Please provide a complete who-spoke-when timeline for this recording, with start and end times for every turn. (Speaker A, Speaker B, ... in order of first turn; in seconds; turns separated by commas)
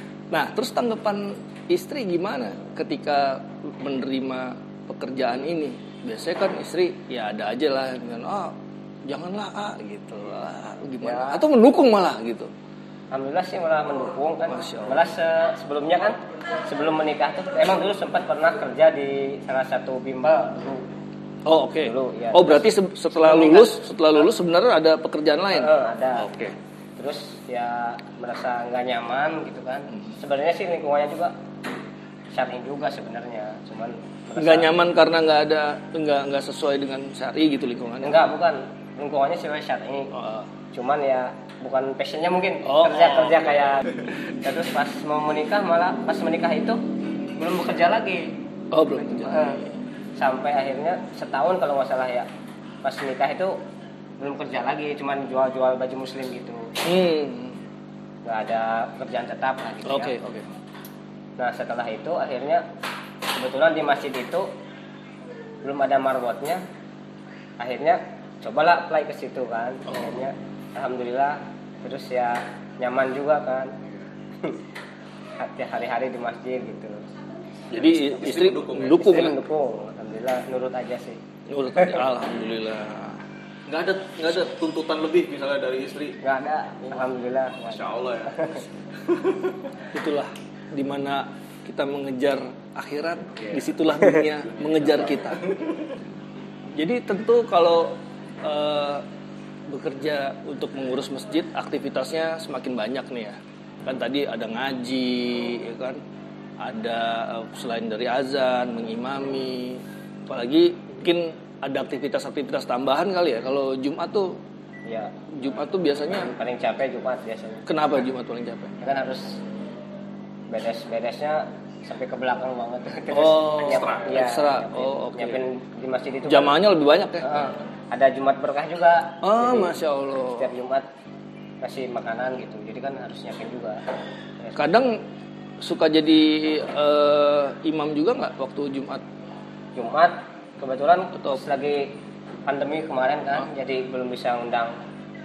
Speaker A: 0.3-12.5, Speaker B: 11.0-11.4, Speaker B: 13.1-20.9, Speaker A: 14.5-15.0, Speaker A: 21.4-26.5, Speaker B: 21.8-23.8, Speaker B: 25.5-26.4, Speaker B: 27.0-31.3, Speaker B: 32.3-34.7, Speaker A: 34.4-38.2, Speaker B: 38.0-40.1, Speaker A: 40.1-40.5, Speaker B: 40.7-46.8, Speaker A: 42.6-43.3, Speaker B: 47.4-48.4, Speaker A: 48.7-49.8, Speaker B: 49.0-49.6, Speaker B: 50.2-52.3, Speaker B: 52.8-53.6, Speaker B: 54.2-56.7, Speaker A: 56.8-57.6, Speaker B: 58.2-60.2, Speaker A: 59.9-60.5, Speaker B: 61.4-62.6, Speaker B: 63.3-64.5, Speaker B: 65.6-66.6, Speaker B: 67.6-73.7, Speaker B: 75.4-77.0, Speaker A: 77.7-79.4, Speaker C: 77.7-79.2, Speaker B: 78.8-81.2, Speaker A: 81.5-83.2, Speaker B: 81.7-82.0, Speaker C: 83.7-86.2, Speaker B: 86.2-88.6, Speaker C: 87.6-89.7, Speaker A: 89.9-95.4, Speaker C: 93.3-93.7, Speaker C: 94.5-95.9, Speaker A: 96.8-99.0, Speaker A: 99.7-106.0, Speaker A: 106.6-114.4, Speaker B: 114.8-115.2, Speaker A: 115.3-116.3, Speaker B: 116.1-117.7, Speaker A: 117.7-118.8, Speaker B: 118.8-119.4, Speaker B: 120.5-126.6, Speaker A: 123.1-125.4, Speaker C: 123.5-124.2, Speaker A: 126.2-127.4, Speaker B: 127.2-130.9, Speaker A: 129.2-130.5, Speaker B: 131.6-133.8, Speaker B: 134.4-134.6, Speaker A: 134.6-135.0, Speaker A: 135.6-139.0, Speaker B: 139.8-144.7